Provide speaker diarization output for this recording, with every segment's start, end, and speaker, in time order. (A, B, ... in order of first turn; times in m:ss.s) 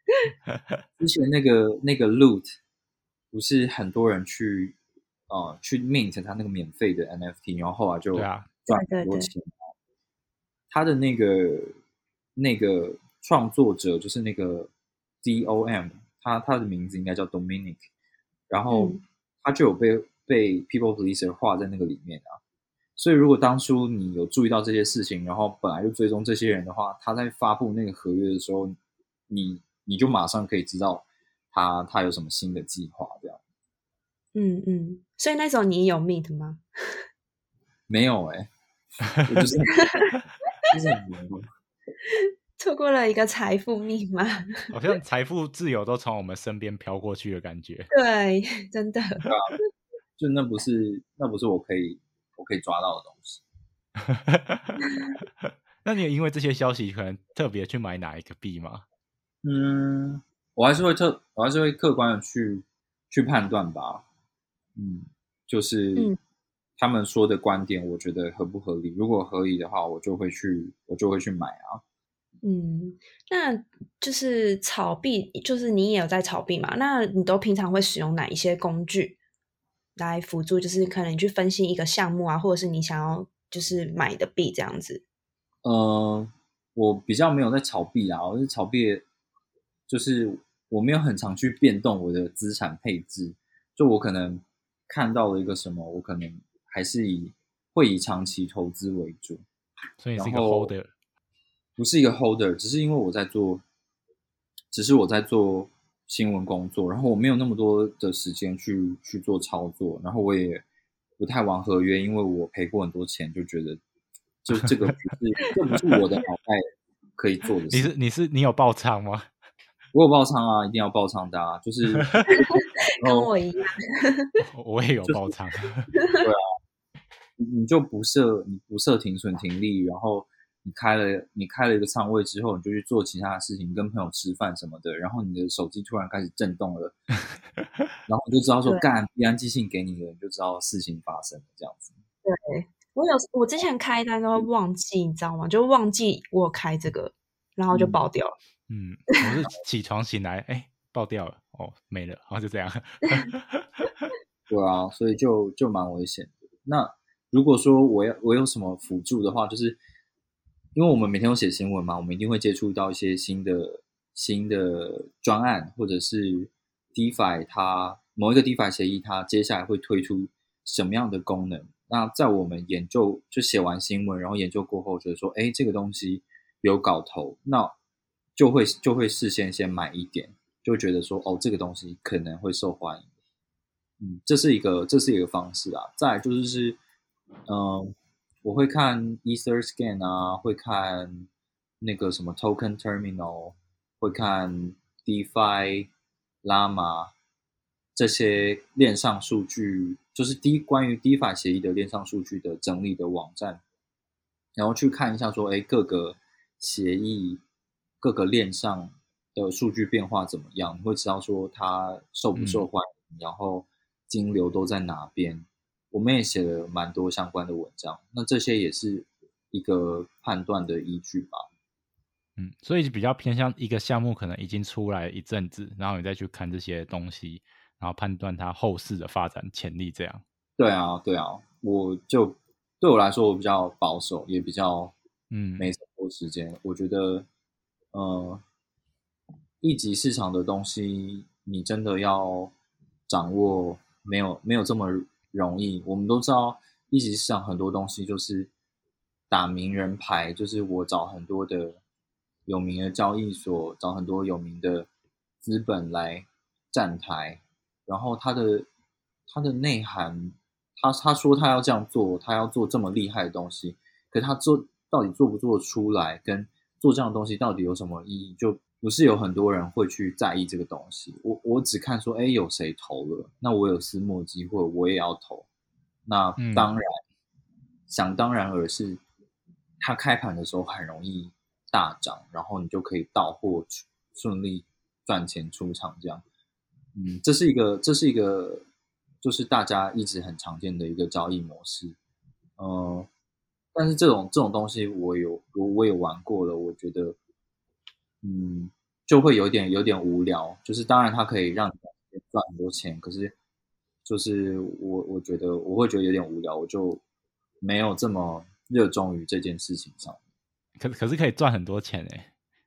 0:00.5-0:00.8 A
0:01.0-0:02.5 B
0:03.3-0:04.8 B
0:05.3-0:09.6 B
0:08.2-0:08.5 A
0:08.7-0:09.3 C
0:10.7-0:11.8 B
0:12.4-0:14.7 B
0:15.2-0:17.8 B
0:18.5-0:22.4 B
0:18.7-0:19.0 C
0:23.0-0:28.8 B
0:29.3-0:33.4 B
0:34.4-0:37.0 C
0:37.9-0:38.5 B
0:39.2-0:39.8 B
0:39.8-0:40.1 C
0:40.7-0:41.5 B
0:42.1-0:44.7 C
0:44.7-0:47.9 A
0:47.9-0:49.3 C
0:49.2-0:49.5 B
0:50.2-0:53.4 B
0:54.0-0:54.9 A
0:55.4-0:58.8 A
0:59.4-1:04.0 B
1:04.8-1:06.1 B
1:06.8-1:11.8 B
1:12.4-1:19.2 C
1:20.0-1:25.0 C
1:25.6-1:29.0 B
1:29.9-1:39.4 B
1:40.0-1:40.9 A
1:40.2-1:40.7 B
1:41.8-1:43.6 B
1:44.7-1:50.6 B
1:51.2-1:53.8 B
1:54.4-1:56.6 B
1:57.2-1:57.9 B
1:57.7-1:59.3 A
1:59.9-2:02.1 B
2:02.0-2:02.3 A
2:02.3-2:04.4 C
2:03.0-2:03.3 B
2:04.5-2:05.9 A
2:05.0-2:05.3 B
2:06.0-2:06.2 C
2:07.4-2:17.0 B
2:18.1-2:21.9 B
2:22.2-2:28.3 C
2:27.7-2:28.0 B
2:28.7-2:34.1 A
2:34.5-2:39.8 B
2:40.8-2:57.8 B
2:58.4-3:03.1 B
3:04.0-3:06.8 B
3:07.5-3:07.9 B
3:08.4-3:11.3 B
3:11.8-3:15.9 B
3:16.4-3:17.1 B
3:17.9-3:23.6 B
3:24.6-3:27.4 B
3:28.0-3:41.4 B
3:32.4-3:32.6 A
3:42.4-3:50.2 A
3:50.6-3:54.9 B
3:55.3-3:55.7 A
3:55.6-3:57.3 B
3:57.9-3:58.4 B
3:59.6-4:02.5 B
4:03.1-4:08.5 B
4:09.3-4:11.8 B
4:12.5-4:14.9 B
4:15.4-4:18.7 B
4:19.3-4:35.5 B
4:36.1-4:37.0 B
4:36.4-4:36.7 A
4:37.9-4:39.0 B
4:39.8-4:46.2 B
4:46.9-4:48.6 B
4:49.2-4:52.0 B
4:52.6-4:53.1 B
4:53.8-4:57.2 B
4:58.2-5:03.4 B
5:04.0-5:07.0 B
5:07.6-5:10.2 B
5:10.8-5:12.3 A